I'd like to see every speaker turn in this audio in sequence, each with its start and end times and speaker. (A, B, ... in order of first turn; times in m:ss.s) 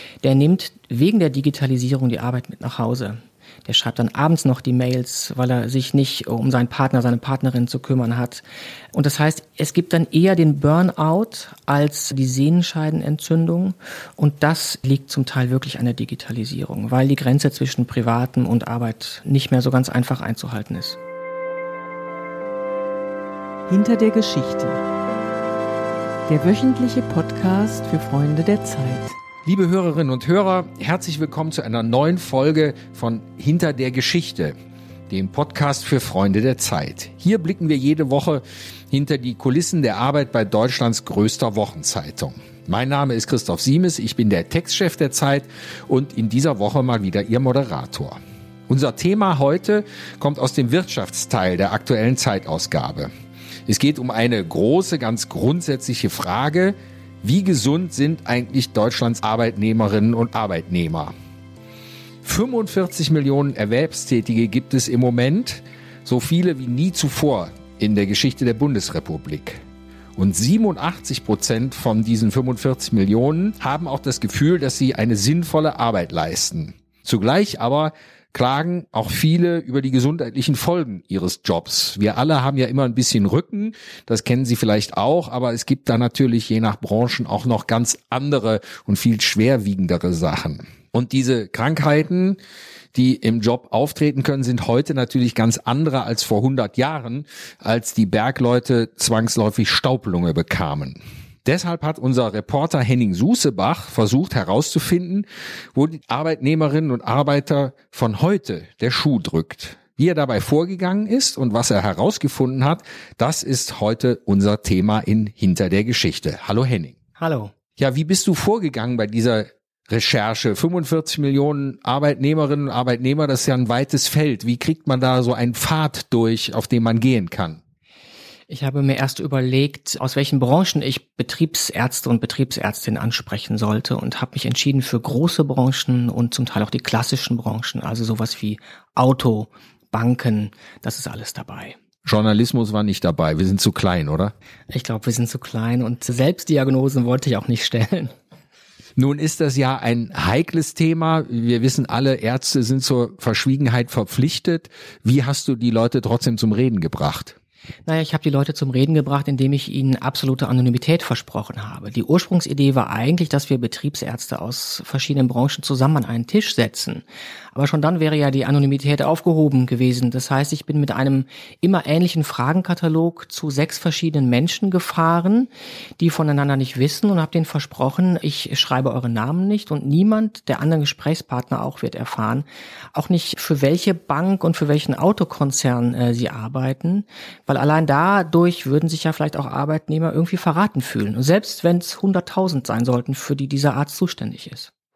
0:00.2-0:21.0 A
0:23.7-0:24.8 B
0:26.3-0:29.2 B
0:29.4-0:34.5 C
0:35.1-0:53.1 C
0:53.7-1:01.1 C
1:02.2-1:09.6 C
1:10.2-1:32.4 C
1:32.9-1:57.0 C
1:57.2-1:57.5 A
1:57.8-2:07.6 C
2:08.5-2:21.8 A
2:22.0-2:24.3 C
2:24.7-2:28.1 A
2:29.0-2:37.3 C
2:37.8-3:14.7 A